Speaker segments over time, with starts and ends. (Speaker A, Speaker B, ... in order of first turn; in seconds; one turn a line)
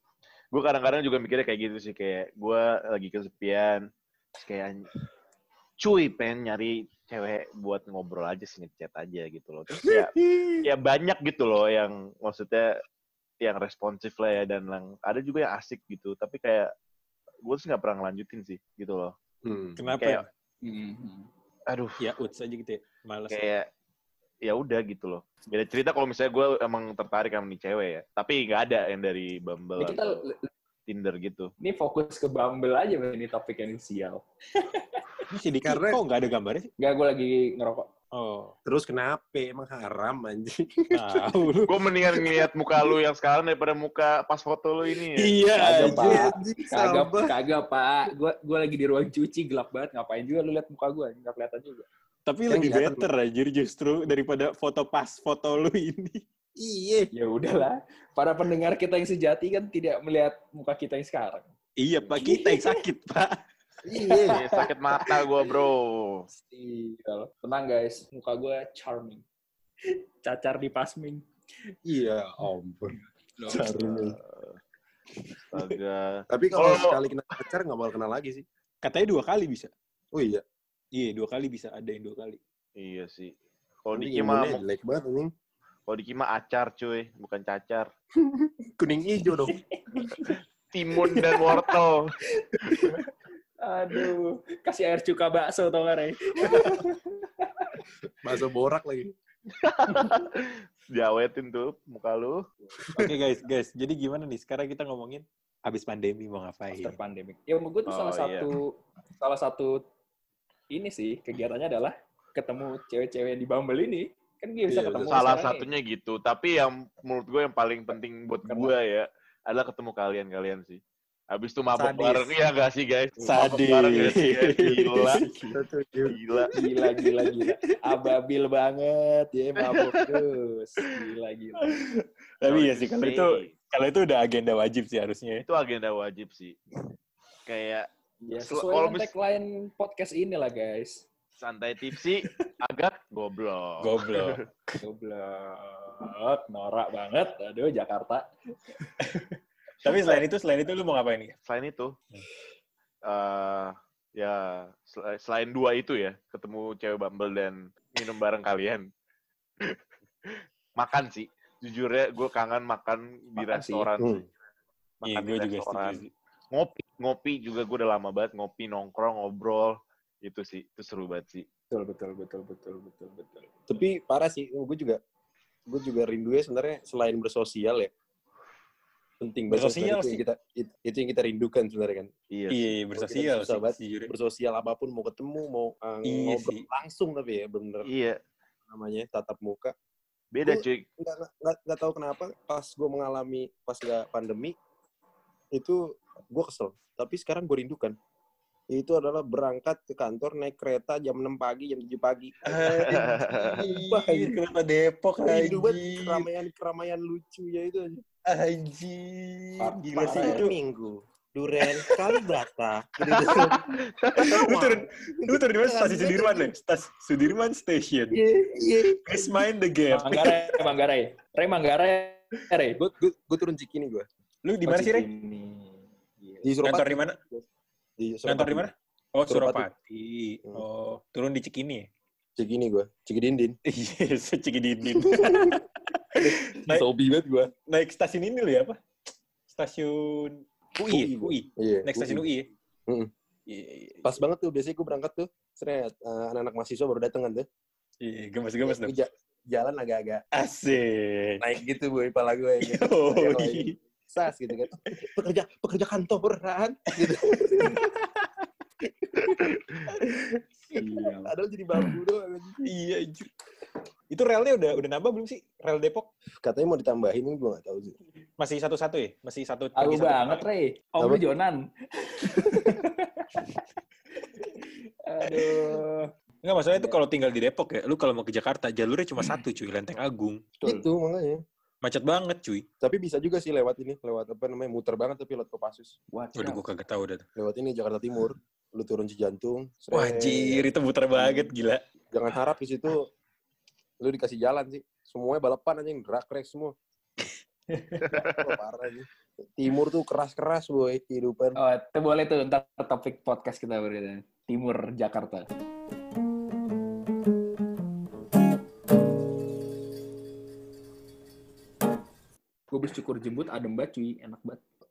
Speaker A: 0.5-4.9
Speaker A: 5.8-12.8
Speaker B: 9.9-10.7
Speaker A: 13.4-16.7
Speaker A: 17.4-19.1
Speaker B: 19.4-19.8
Speaker C: 19.8-20.2
Speaker A: 19.9-20.2
Speaker D: 20.6-21.3
Speaker A: 21.7-22.1
Speaker C: 22.0-23.6
Speaker A: 23.3-23.7
Speaker A: 24.4-30.3
Speaker D: 29.8-30.5
Speaker A: 30.9-31.5
Speaker D: 31.6-35.3
Speaker C: 35.3-36.7
Speaker B: 35.6-36.0
Speaker D: 36.8-37.9
Speaker C: 38.1-38.5
Speaker B: 38.6-41.3
Speaker C: 40.9-41.7
Speaker A: 41.6-45.4
Speaker C: 45.1-46.3
Speaker D: 45.5-51.9
Speaker B: 45.6-47.3
Speaker C: 52.2-56.2
Speaker B: 52.5-53.0
Speaker B: 56.6-57.1
Speaker D: 57.1-61.5
Speaker C: 61.8-63.4
Speaker D: 62.1-62.9
Speaker B: 63.8-64.5
Speaker D: 63.9-65.2
Speaker A: 64.3-66.3
Speaker D: 66.3-69.2
Speaker D: 69.9-71.2
Speaker B: 71.8-74.2
Speaker D: 73.5-73.8
Speaker A: 74.2-74.6
Speaker A: 75.5-77.0
Speaker B: 76.3-78.4
Speaker C: 78.8-79.7
Speaker B: 80.1-80.4
Speaker C: 80.9-82.4
Speaker A: 82.8-84.6
Speaker B: 83.9-85.3
Speaker A: 85.9-87.9
Speaker B: 88.2-90.3
Speaker D: 89.3-90.4
Speaker A: 90.7-92.1
Speaker D: 91.1-91.5
Speaker D: 92.3-93.1
Speaker D: 93.6-97.8
Speaker B: 98.2-99.1
Speaker A: 99.5-102.4
Speaker B: 102.8-103.1
Speaker C: 102.9-107.0
Speaker D: 106.7-109.8
Speaker A: 107.9-108.5
Speaker D: 110.7-115.7
Speaker B: 114.7-115.3
Speaker A: 115.1-125.2
Speaker D: 118.5-118.7
Speaker B: 121.7-122.3
Speaker C: 123.2-125.3
Speaker D: 125.2-125.5
Speaker B: 125.5-126.2
Speaker A: 126.1-126.5
Speaker D: 126.5-131.9
Speaker C: 127.0-127.9
Speaker A: 129.6-130.0
Speaker C: 131.6-135.4
Speaker A: 132.4-133.5
Speaker A: 135.4-136.6
Speaker A: 137.4-139.1
Speaker D: 138.2-141.1
Speaker A: 141.4-144.4
Speaker C: 143.8-144.8
Speaker D: 144.8-148.3
Speaker C: 149.0-151.3
Speaker A: 149.9-150.2
Speaker A: 151.5-151.9
Speaker A: 153.1-158.9
Speaker A: 159.6-164.2
Speaker D: 163.4-163.9
Speaker B: 164.0-164.2
Speaker A: 165.0-166.0
Speaker C: 165.0-166.1
Speaker A: 166.5-171.5
Speaker D: 171.7-173.6
Speaker B: 173.7-175.0
Speaker B: 175.7-177.9
Speaker B: 179.2-182.1
Speaker C: 179.5-180.2
Speaker A: 182.3-182.8
Speaker C: 182.5-184.1
Speaker B: 182.9-187.9
Speaker C: 186.0-186.7
Speaker A: 187.8-188.2
Speaker B: 188.7-189.7
Speaker A: 190.3-190.8
Speaker B: 190.4-194.6
Speaker B: 195.5-197.9
Speaker B: 198.7-204.4
Speaker C: 202.4-206.3
Speaker A: 202.8-203.6
Speaker B: 205.2-208.0
Speaker C: 208.2-210.5
Speaker D: 209.6-210.5
Speaker B: 209.9-216.5
Speaker C: 211.6-212.2
Speaker C: 213.1-213.6
Speaker C: 214.2-218.2
Speaker B: 218.1-219.4
Speaker C: 219.0-220.6
Speaker D: 219.9-222.8
Speaker B: 222.8-224.1
Speaker C: 224.4-225.1
Speaker D: 224.6-226.5
Speaker B: 226.4-227.4
Speaker C: 226.6-227.2
Speaker B: 228.0-228.7
Speaker C: 228.3-231.9
Speaker B: 229.3-229.7
Speaker B: 232.4-233.6
Speaker C: 233.7-236.8
Speaker B: 234.9-235.6
Speaker B: 236.1-237.5
Speaker C: 237.7-238.8
Speaker C: 239.5-242.5
Speaker B: 240.8-242.2
Speaker C: 243.5-244.1
Speaker B: 244.0-247.4
Speaker C: 248.0-248.9
Speaker B: 248.6-250.2
Speaker C: 250.3-251.4
Speaker B: 251.4-257.8
Speaker C: 252.6-253.8
Speaker C: 257.0-258.4
Speaker B: 259.1-259.4
Speaker C: 259.2-260.1
Speaker B: 260.7-262.7
Speaker D: 260.7-261.9
Speaker C: 262.6-263.3
Speaker C: 264.1-266.1
Speaker B: 266.4-267.9
Speaker C: 268.4-270.4
Speaker D: 269.7-273.6
Speaker D: 274.5-276.1
Speaker C: 276.4-280.4
Speaker D: 276.7-277.0
Speaker D: 280.6-280.9
Speaker B: 280.6-281.4
Speaker C: 281.8-282.7
Speaker B: 282.8-286.0
Speaker D: 286.1-286.6
Speaker C: 286.3-287.2
Speaker B: 287.4-291.5
Speaker C: 289.9-291.8
Speaker B: 292.1-293.1
Speaker B: 294.0-296.7
Speaker D: 297.7-298.2
Speaker B: 298.0-301.6
Speaker A: 298.1-298.5
Speaker D: 301.5-305.5
Speaker D: 312.7-314.6